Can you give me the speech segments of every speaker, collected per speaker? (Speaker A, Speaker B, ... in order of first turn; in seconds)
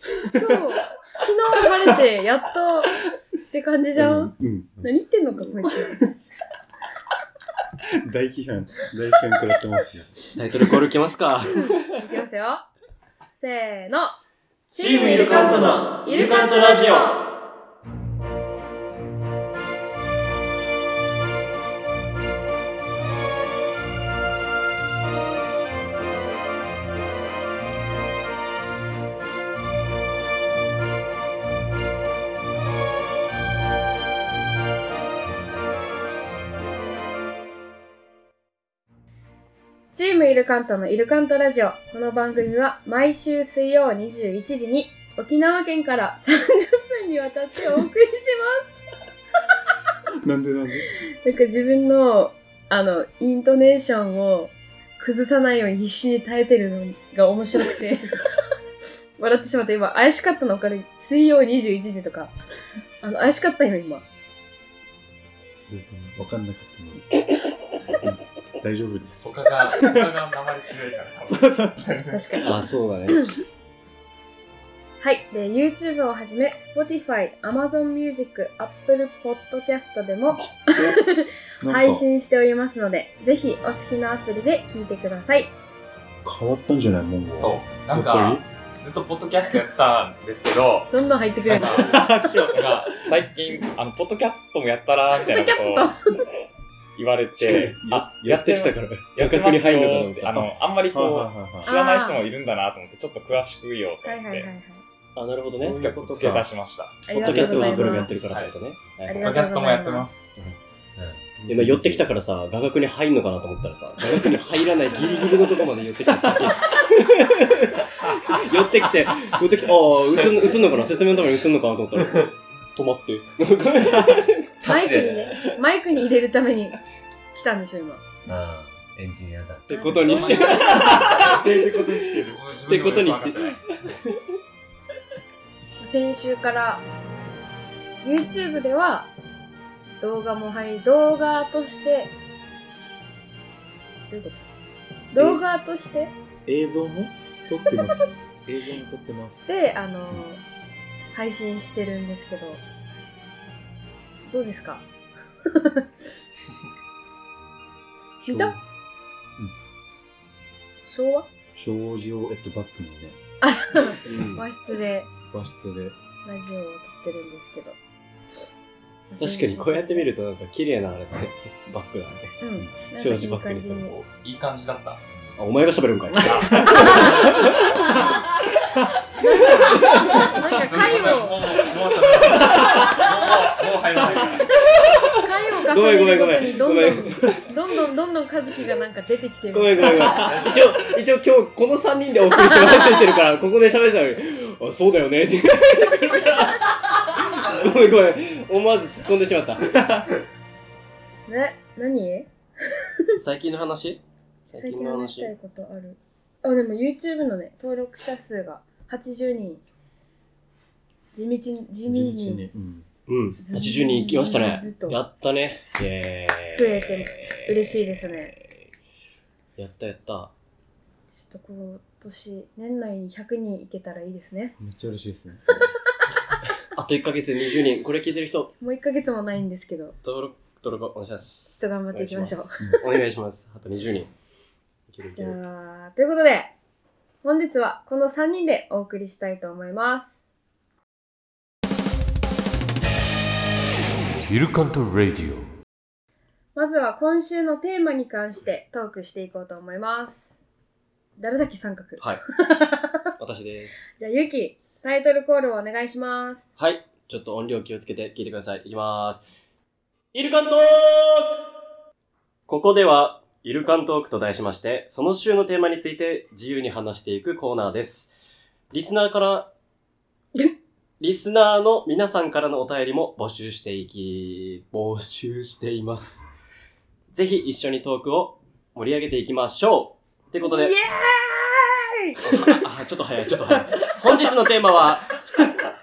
Speaker A: 0.3-3.0, 3.5-6.1, 11.5-12.6, 13.4-14.2, 14.7-17.2, 39.9-48.6, 51.2-58.2, 59.2-62.3, 63.0-64.0, 72.1-73.3, 75.0-85.5, 90.9-91.9, 95.2-96.2, 101.6-102.2, 104.0-104.8, 107.1-108.3, 109.0-110.1, 114.9-115.4, 124.6-126.8, 127.3-128.0, 129.7-131.0, 135.8-136.8, 138.0-139.1, 140.0-142.1, 144.1-144.4, 145.1-146.1, 149.5-150.4, 151.1-152.6, 154.3-154.8, 155.5-155.8, 158.2-158.5, 160.9-161.3, 163.4-165.1, 166.2-167.8, 169.1-170.1, 172.4-173.9, 176.6-177.3, 179.2-181.4, 184.5-190.2, 201.3-203.1, 204.6-209.6, 211.1-212.4, 213.4-215.0, 216.5-218.3, 221.1-224.5, 228.6-229.9, 231.6-232.8, 235.2-236.5, 237.2-240.1, 246.5-250.3, 251.2-253.1, 254.0-256.5, 280.4-282.2
Speaker B: 4.0-4.9, 5.5-6.1, 8.0-10.8, 50.2-50.9, 65.7-67.1, 68.0-70.1, 71.3-71.8, 80.4-81.0, 81.6-82.0, 86.2-88.4, 91.8-92.9, 97.4-98.4, 100.9-101.7, 105.5-106.5, 107.2-108.3, 111.3-112.1, 130.7-132.4, 145.2-145.4, 146.4-150.2, 158.2-158.6, 161.5-163.2, 165.3-165.9, 176.2-177.0, 177.9-178.2, 182.4-183.0, 189.8-190.7, 199.7-200.1, 211.8-212.9, 224.6-225.7
Speaker C: 10.3-11.8, 14.7-17.2, 72.4-73.3, 97.5-100.5, 105.2-105.8, 107.1-109.3, 111.5-124.9, 129.7-131.5, 132.6-134.2, 164.0-164.4, 169.2-172.3, 172.9-173.9, 175.4-177.7, 179.8-180.3, 182.1-183.0, 185.7-187.4, 189.5-199.8, 203.2-205.3, 213.1-218.6, 219.6-220.3, 226.7-228.5, 230.0-234.1, 234.9-235.4, 253.2-253.8, 256.6-259.2, 260.1-261.4, 262.5-268.1, 268.7-269.5, 271.0-276.2, 277.1-280.8, 282.2-285.2
Speaker D: 69.2-72.4, 87.4-90.9, 91.5-96.0, 97.0-104.5, 105.6-107.0, 108.1-108.5, 109.1-110.3, 130.0-131.5, 132.1-133.6, 174.0-175.0, 176.2-178.1, 180.2-184.6, 190.2-190.7
Speaker E: 124.8-125.1, 128.3-129.7, 244.3-245.5